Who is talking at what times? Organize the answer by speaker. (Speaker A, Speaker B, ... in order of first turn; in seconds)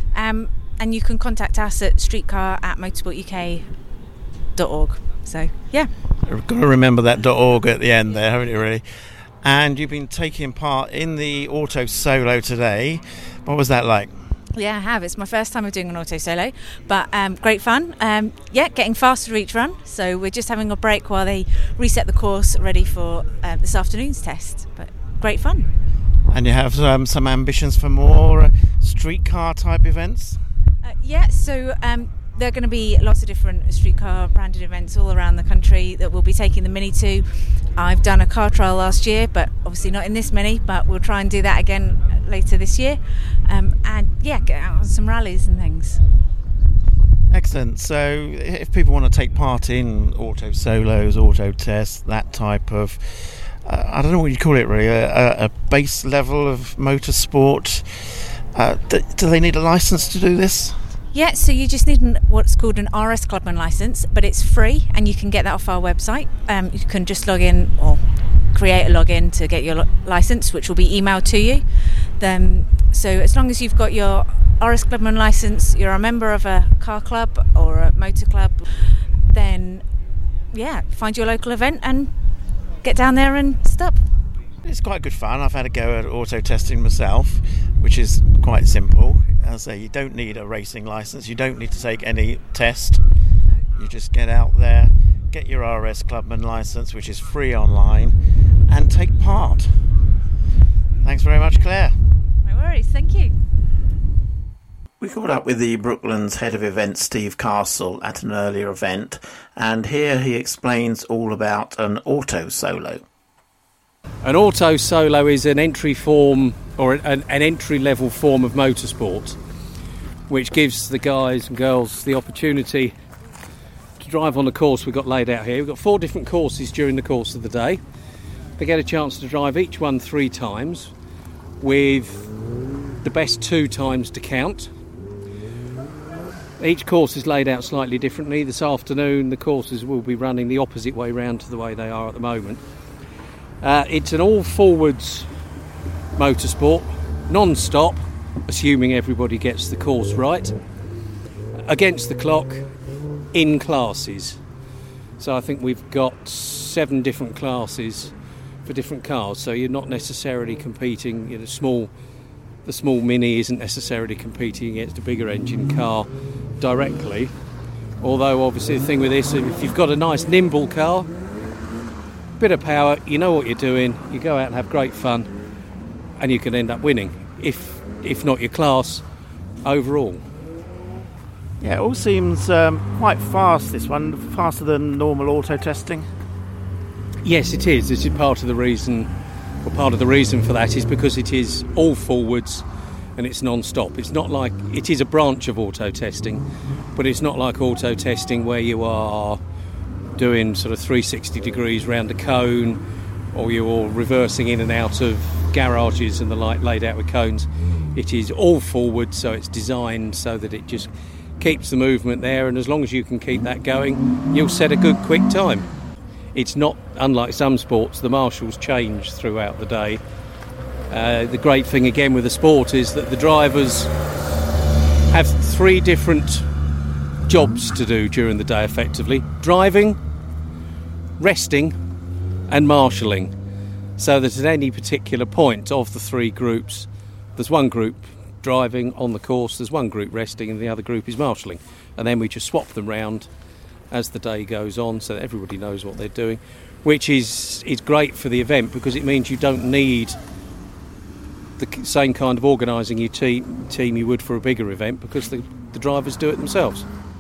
Speaker A: 0.1-3.6, 4.5-5.9, 14.5-25.7, 30.8-46.0, 61.1-68.0, 68.5-71.6, 72.2-78.6, 79.3-79.8, 80.5-82.1, 82.8-84.0, 102.4-103.3
Speaker B: 6.2-8.8, 9.4-14.2, 26.3-30.4, 47.3-57.9, 58.5-60.7, 84.6-93.0, 93.7-98.1, 98.7-99.7, 101.0-102.0, 105.0-113.0, 181.6-186.1
Speaker C: 114.2-119.3, 120.3-122.9, 124.0-127.8, 128.6-130.9, 131.6-132.3, 133.0-134.7, 136.6-142.6, 143.6-145.3, 146.2-150.6, 151.7-152.6, 153.3-154.4, 155.2-158.1, 158.7-161.9, 162.6-166.1, 166.6-167.3, 168.0-171.1, 172.4-175.3, 176.2-179.0, 179.6-180.2, 187.2-189.1, 189.6-192.6, 193.2-196.4, 196.9-199.4, 200.2-202.8, 203.3-215.7, 216.3-220.0, 220.9-223.9, 225.1-226.4, 227.3-230.0, 231.2-231.8, 232.5-233.3, 234.0-243.3, 243.9-250.2, 251.6-256.8